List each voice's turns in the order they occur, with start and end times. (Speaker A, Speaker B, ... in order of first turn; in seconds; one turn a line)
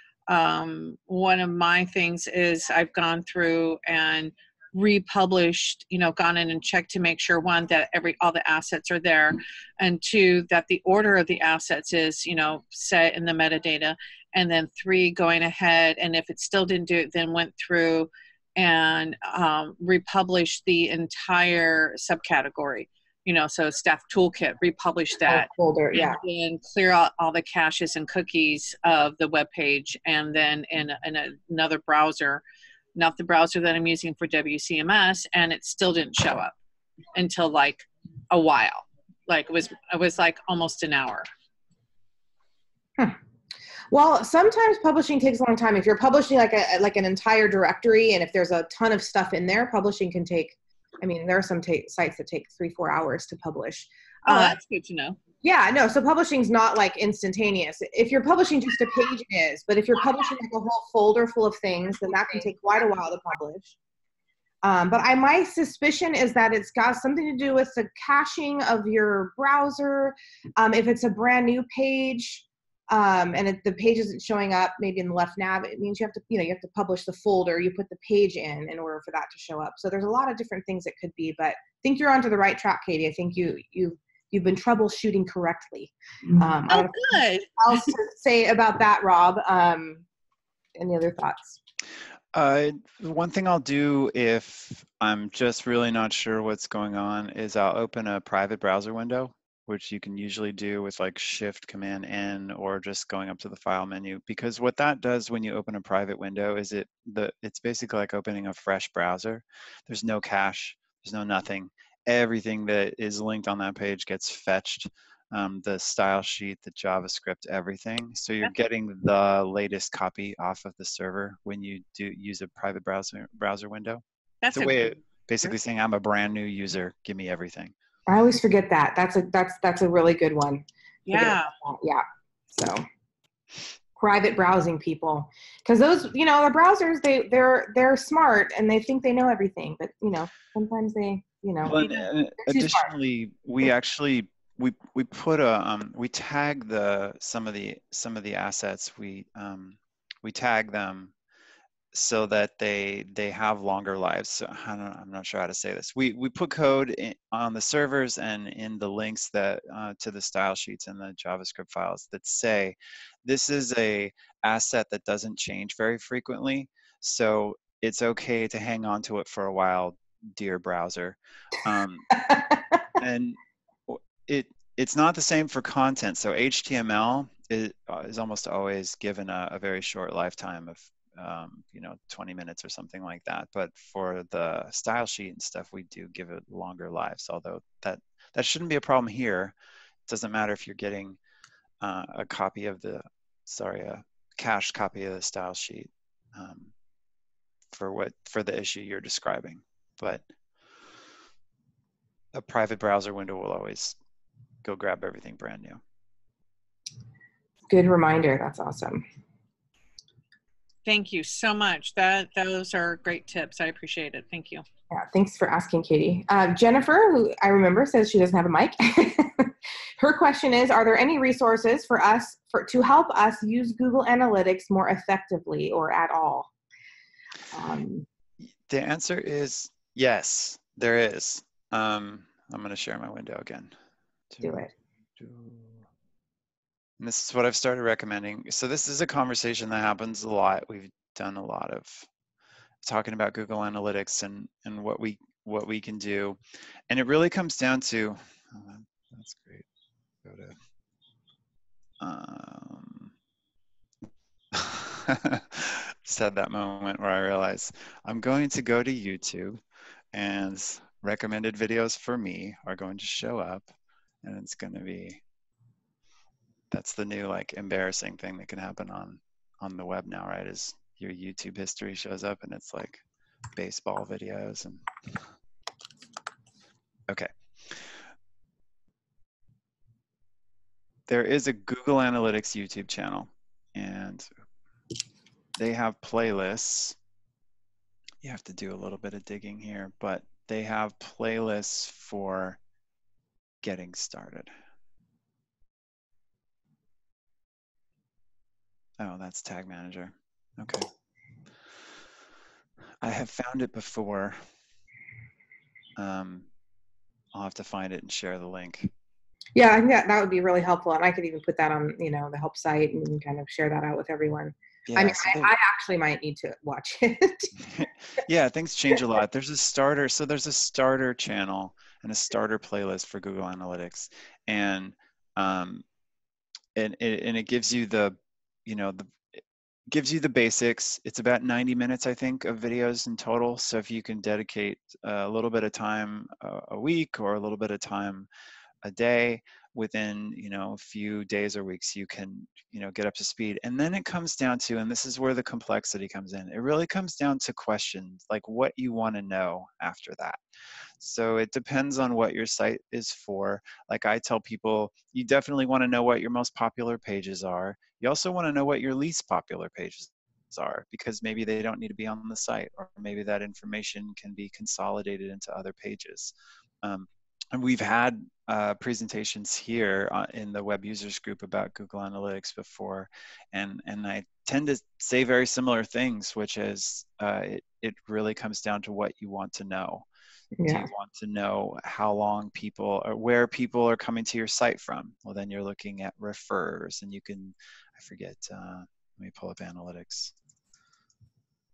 Speaker A: 0.3-32.4
Speaker B: 25.3-26.2
Speaker A: 32.9-36.5
Speaker A: 37.1-41.3
Speaker B: 43.9-54.6
Speaker A: 54.2-55.2
Speaker B: 55.4-63.7
Speaker B: 64.6-87.0
Speaker A: 86.7-87.5
Speaker B: 87.6-90.0
Speaker B: 90.8-91.6
Speaker C: 92.3-127.7
Speaker A: 124.4-125.5
Speaker B: 128.1-132.8
Speaker A: 131.1-131.5
Speaker B: 134.0-142.9
Speaker C: 141.6-151.1
Speaker C: 151.9-172.2
Speaker B: 172.3-172.6
Speaker C: 173.0-189.5
Speaker C: 190.1-191.2
Speaker C: 191.8-196.7
Speaker C: 197.7-200.2
Speaker C: 202.3-204.0
Speaker C: 204.6-205.8
Speaker B: 207.7-209.0
Speaker A: 210.8-214.6
Speaker B: 214.9-226.5
Speaker B: 227.5-228.1
Speaker C: 228.7-233.7
Speaker C: 234.3-234.6
Speaker B: 234.4-234.7
Speaker C: 235.2-235.8
Speaker C: 237.0-242.1
Speaker C: 242.8-246.4
Speaker C: 246.9-249.7
Speaker C: 250.2-250.5
Speaker C: 252.0-253.1
Speaker C: 254.5-259.6
Speaker C: 260.1-263.7
Speaker C: 264.2-265.2
Speaker C: 266.7-273.0
Speaker C: 273.6-275.2
Speaker C: 277.1-277.9
Speaker C: 281.1-284.3
Speaker C: 285.6-287.0
Speaker C: 288.2-292.6
Speaker C: 293.6-294.5
Speaker C: 299.0-300.9
Speaker C: 303.0-304.4
Speaker C: 305.9-306.5
Speaker C: 307.3-308.9
Speaker B: 309.6-317.5
Speaker C: 314.9-315.5
Speaker C: 317.6-325.8
Speaker C: 326.7-338.3
Speaker C: 338.8-350.4
Speaker C: 351.0-380.1
Speaker B: 380.6-380.9
Speaker C: 380.6-390.3